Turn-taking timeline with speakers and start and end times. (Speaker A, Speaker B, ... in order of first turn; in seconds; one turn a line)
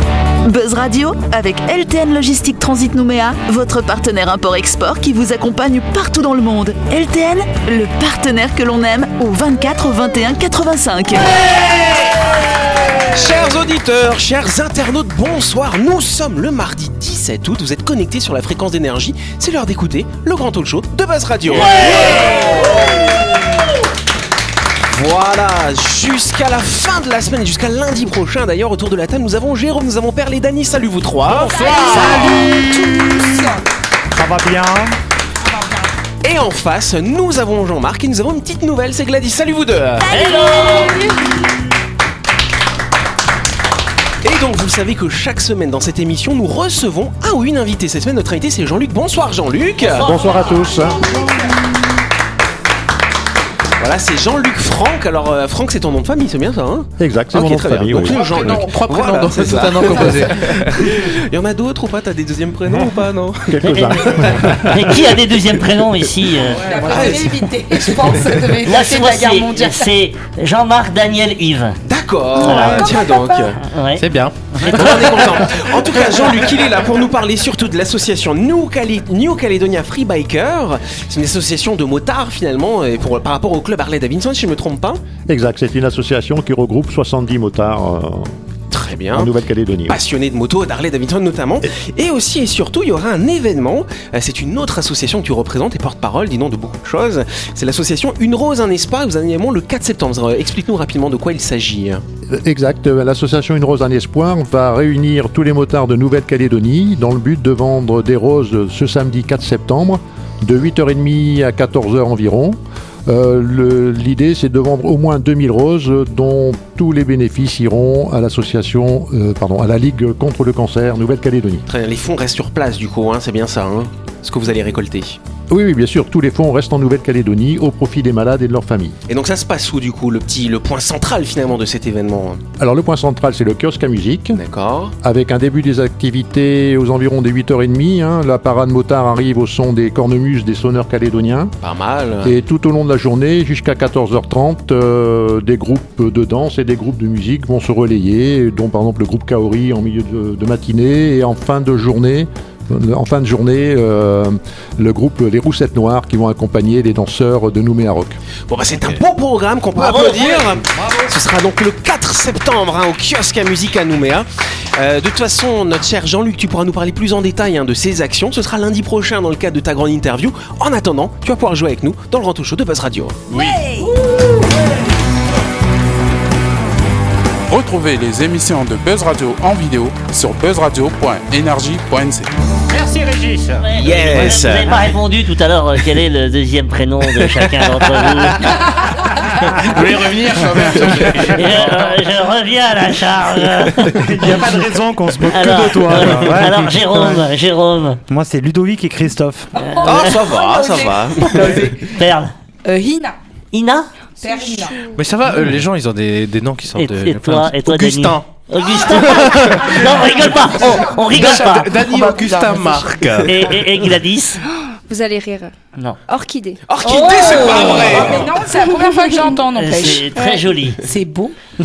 Speaker A: 0.4-11.3
Speaker B: 13.1-22.9
Speaker C: 21.6-22.5
Speaker B: 24.9-32.3
Speaker D: 31.4-33.6
Speaker E: 31.9-33.2
Speaker E: 34.1-35.0
Speaker D: 35.4-35.9
Speaker B: 36.2-40.1
Speaker C: 40.1-41.0
Speaker D: 40.2-41.3
Speaker B: 44.2-50.1
Speaker C: 49.8-50.7
Speaker F: 50.0-51.2
Speaker B: 53.8-64.6
Speaker F: 57.0-58.2
Speaker G: 58.0-60.7
Speaker F: 62.7-64.9
Speaker C: 63.6-67.1
Speaker D: 66.4-69.9
Speaker B: 66.8-68.2
Speaker C: 68.6-71.8
Speaker B: 71.9-73.6
Speaker D: 72.4-73.5
Speaker C: 72.4-72.9
Speaker C: 73.6-74.0
Speaker G: 74.0-75.8
Speaker C: 74.6-75.2
Speaker B: 74.6-85.0
Speaker F: 85.2-88.3
Speaker B: 88.7-89.3
Speaker F: 89.1-90.0
Speaker B: 89.9-102.0
Speaker F: 102.3-121.6
Speaker B: 121.7-125.2
Speaker F: 125.5-129.0
Speaker B: 129.1-132.4
Speaker F: 132.6-134.4
Speaker B: 134.3-134.9
Speaker F: 135.0-141.5
Speaker B: 141.6-142.3
Speaker F: 142.2-158.2
Speaker B: 158.5-173.2
Speaker C: 159.7-160.5
Speaker G: 173.3-173.9
Speaker H: 177.5-182.3
Speaker G: 182.7-183.7
Speaker C: 183.6-188.5
Speaker B: 183.7-184.9
Speaker G: 187.8-188.8
Speaker G: 189.4-191.9
Speaker C: 191.2-194.5
Speaker E: 194.0-197.2
Speaker C: 195.2-198.0
Speaker E: 198.1-199.5
Speaker D: 199.6-201.9
Speaker C: 199.6-200.3
Speaker B: 199.8-201.6
Speaker C: 201.2-202.3
Speaker D: 202.6-203.2
Speaker C: 203.5-203.9
Speaker D: 204.2-204.8
Speaker G: 204.9-209.9
Speaker C: 206.8-211.7
Speaker D: 209.1-213.1
Speaker G: 210.5-213.5
Speaker C: 213.2-214.4
Speaker I: 214.4-215.5
Speaker I: 216.1-216.6
Speaker B: 216.7-218.3
Speaker C: 216.8-218.2
Speaker D: 216.9-220.1
Speaker I: 218.5-219.4
Speaker C: 219.6-220.8
Speaker I: 220.1-220.5
Speaker D: 220.8-221.3